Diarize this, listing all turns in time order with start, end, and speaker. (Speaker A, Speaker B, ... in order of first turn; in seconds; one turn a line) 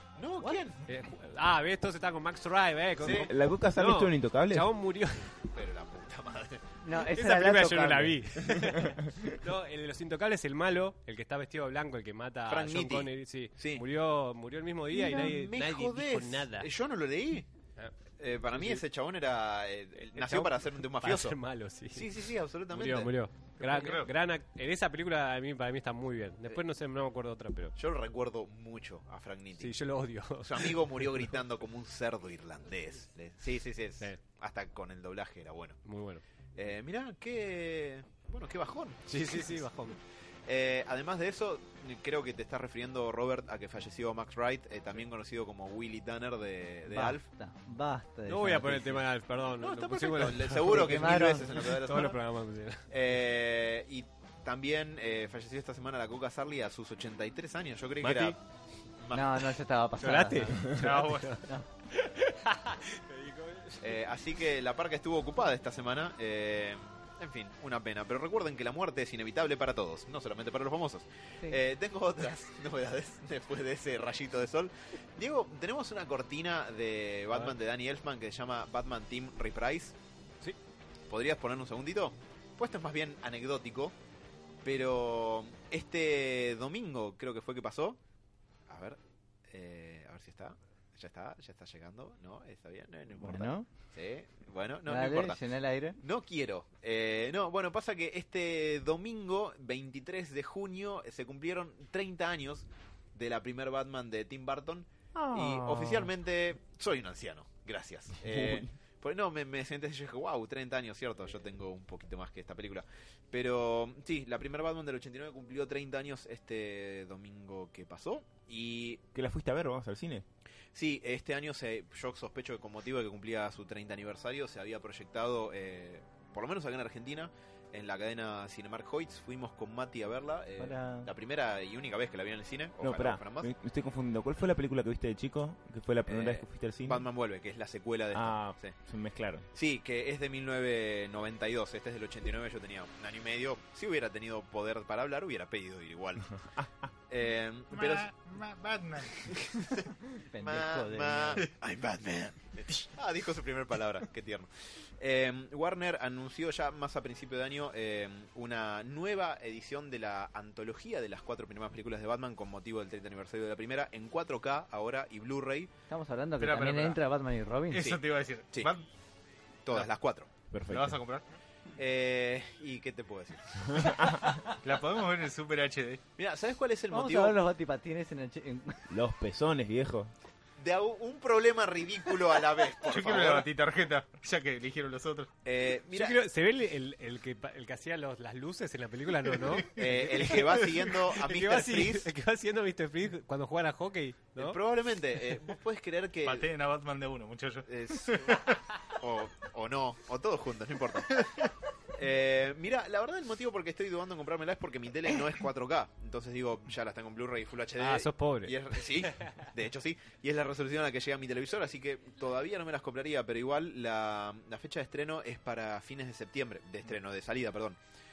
Speaker A: 0.2-0.8
Speaker B: 0.9-5.3
Speaker A: 3.0-3.3
Speaker C: 3.0-4.7
Speaker A: 5.5-6.6
Speaker D: 6.8-8.2
Speaker B: 7.2-16.7
Speaker A: 12.5-13.8
Speaker D: 14.9-15.3
Speaker A: 15.0-17.5
Speaker A: 18.2-21.4
Speaker B: 18.5-18.8
Speaker B: 20.0-27.8
Speaker A: 21.9-23.1
Speaker E: 23.6-24.1
Speaker A: 27.8-29.7
Speaker B: 29.6-31.3
Speaker A: 30.4-35.8
Speaker B: 35.8-36.2
Speaker A: 36.5-39.6
Speaker B: 39.1-40.0
Speaker A: 40.5-47.2
Speaker D: 46.9-49.0
Speaker B: 48.3-52.9
Speaker A: 49.6-52.2
Speaker D: 50.6-51.6
Speaker A: 52.9-58.4
Speaker B: 58.0-58.4
Speaker A: 59.0-59.4
Speaker D: 59.1-60.7
Speaker B: 60.0-64.0
Speaker E: 60.8-61.4
Speaker A: 63.8-79.9
Speaker A: 81.1-83.9
Speaker A: 84.6-88.0
Speaker A: 88.7-95.4
Speaker D: 93.2-93.7
Speaker D: 94.8-96.0
Speaker A: 96.0-119.0
Speaker C: 105.1-106.1
Speaker C: 108.2-108.7
Speaker C: 119.1-120.2
Speaker A: 120.7-133.5
Speaker D: 130.6-131.1
Speaker C: 132.8-137.1
Speaker A: 136.1-138.8
Speaker C: 138.1-139.4
Speaker A: 139.5-146.4
Speaker A: 147.1-148.1
Speaker E: 147.7-149.3
Speaker A: 149.2-149.9
Speaker D: 150.3-151.4
Speaker A: 150.4-165.7
Speaker D: 165.9-167.8
Speaker E: 166.4-167.0
Speaker E: 167.7-168.8
Speaker A: 167.8-168.7
Speaker A: 169.6-170.3
Speaker C: 170.5-171.0
Speaker E: 170.7-171.2
Speaker A: 171.8-173.9
Speaker C: 173.7-174.4
Speaker E: 174.5-176.0
Speaker A: 176.2-177.4
Speaker D: 176.9-178.8
Speaker C: 178.9-180.1
Speaker A: 180.6-183.5
Speaker E: 182.8-185.3
Speaker A: 185.4-186.2
Speaker B: 185.9-194.6
Speaker E: 189.3-190.7
Speaker A: 189.8-192.1
Speaker A: 194.3-196.5
Speaker E: 196.2-198.6
Speaker A: 197.7-217.8
Speaker B: 207.8-209.3